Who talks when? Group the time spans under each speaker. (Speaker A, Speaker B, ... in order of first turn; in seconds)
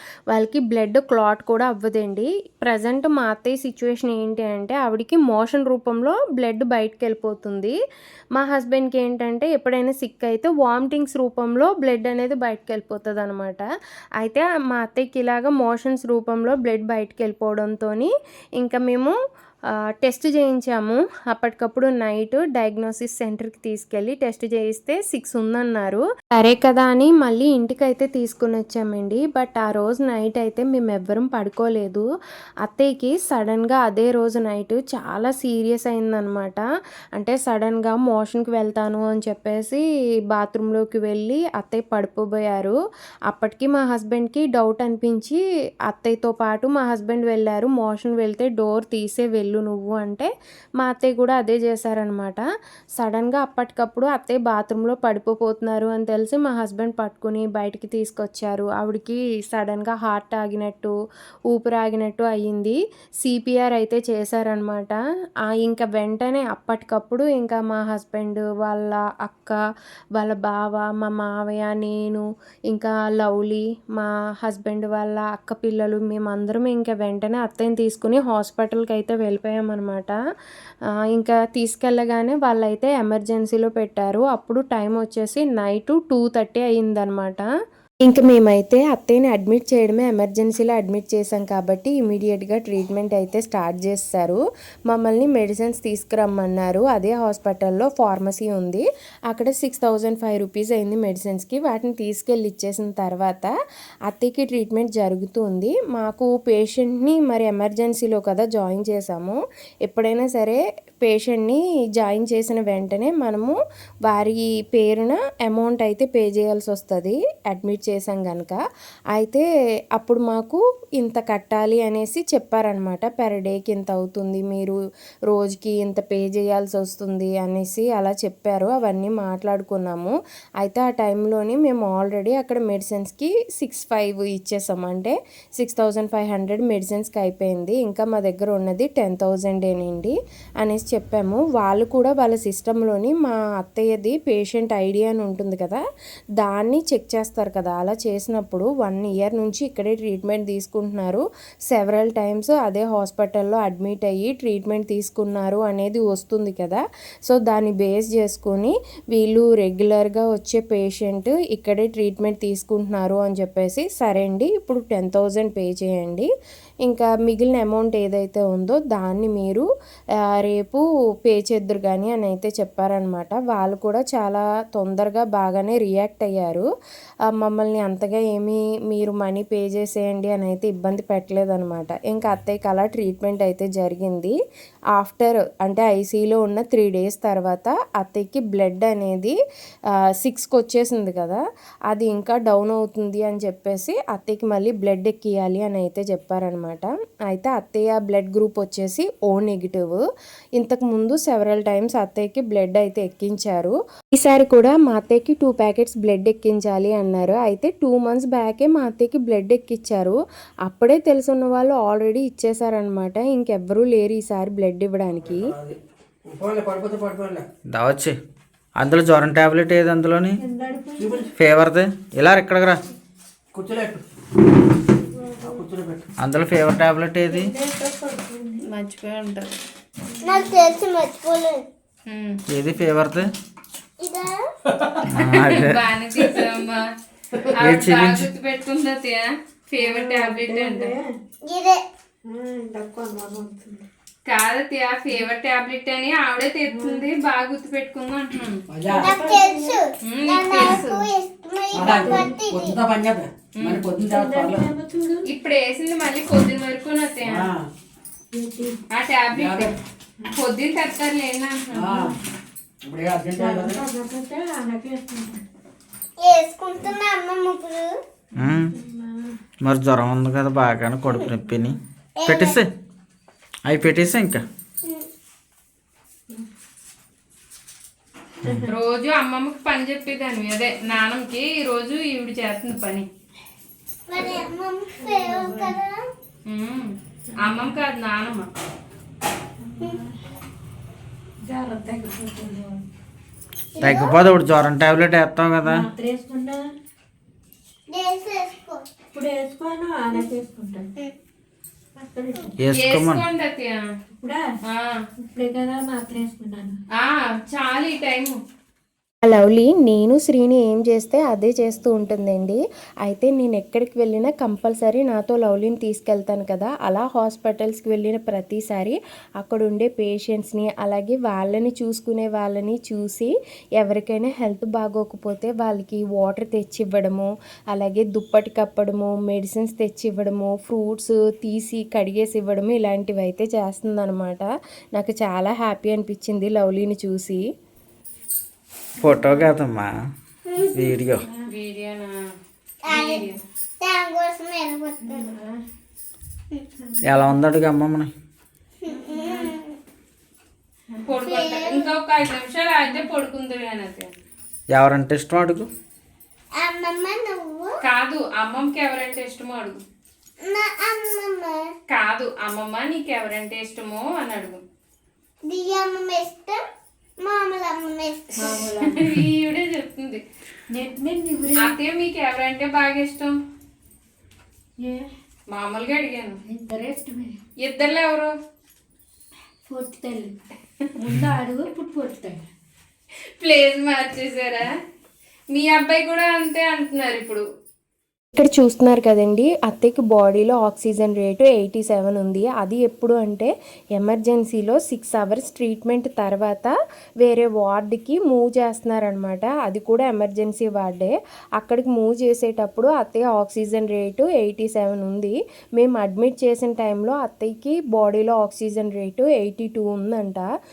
Speaker A: 0.3-7.8, 8.4-13.7, 14.2-19.1, 20.0-32.1, 32.6-36.6, 37.2-42.8, 43.3-52.4, 53.0-60.9, 61.5-65.0, 65.6-69.6, 70.2-80.2, 81.1-87.5, 88.0-103.5, 104.1-118.6, 119.1-124.8, 125.3-145.8, 146.4-166.3, 166.8-169.7, 170.4-176.7, 177.4-184.3, 185.0-189.4, 190.2-200.0, 200.6-215.5, 309.2-337.4, 388.3-410.5
Speaker B: 215.2-215.8, 216.3-217.4, 221.0-221.3, 223.5-224.0, 225.4-226.1, 234.7-235.1, 248.7-249.2, 251.7-254.7, 257.2-257.6, 259.3-259.8, 261.7-262.2, 262.8-263.8
Speaker C: 217.7-218.2, 218.8-220.4, 221.4-222.8, 226.2-227.5, 232.5-233.3, 235.0-235.8, 237.6-238.3, 268.4-268.7, 269.6-272.7, 273.6-274.4, 293.8-295.9, 302.6-303.2, 339.0-339.9, 340.7-341.2, 347.0-348.1, 354.7-355.7
Speaker D: 220.4-221.3, 225.1-225.7, 227.3-228.6, 230.2-230.7, 239.8-241.2, 242.3-243.9, 246.7-247.1, 248.9-249.8, 251.9-252.5, 254.0-255.3, 258.3-258.8, 261.8-262.2, 263.4-265.4, 268.5-269.4, 278.4-278.7, 284.2-285.8, 287.3-287.8, 289.6-290.1, 291.5-292.8, 295.6-296.6, 299.1-300.9, 302.0-302.6, 304.1-304.4, 305.2-306.8, 339.0-339.4, 345.0-345.6, 346.9-347.3, 348.9-349.5, 368.4-369.1, 370.7-371.8, 374.8-375.1, 376.4-377.4, 379.7-380.3, 381.0-382.4
Speaker E: 228.7-229.5, 232.1-232.4, 235.3-236.8, 237.5-240.9, 244.3-248.6, 250.1-251.1, 253.6-253.8, 255.3-257.5, 258.9-259.7, 260.2-261.9, 278.7-283.1, 286.5-288.5, 302.7-303.8, 307.0-308.4, 341.5-342.2, 342.9-343.4, 351.1-354.1, 357.8-359.8, 361.9-364.6, 368.4-370.2, 371.6-373.4, 375.5-376.4, 377.6-378.3, 383.4-384.7, 385.5-387.4
Speaker F: 230.2-231.7, 234.0-234.4, 241.5-241.8, 248.9-252.8, 266.2-267.9, 272.2-272.6, 284.1-286.1, 293.8-294.2, 297.9-298.9, 340.5-340.9, 342.9-343.2, 343.8-345.3, 348.8-349.8, 351.2-351.9, 356.6-357.7, 360.4-361.6, 365.5-366.6, 367.2-368.5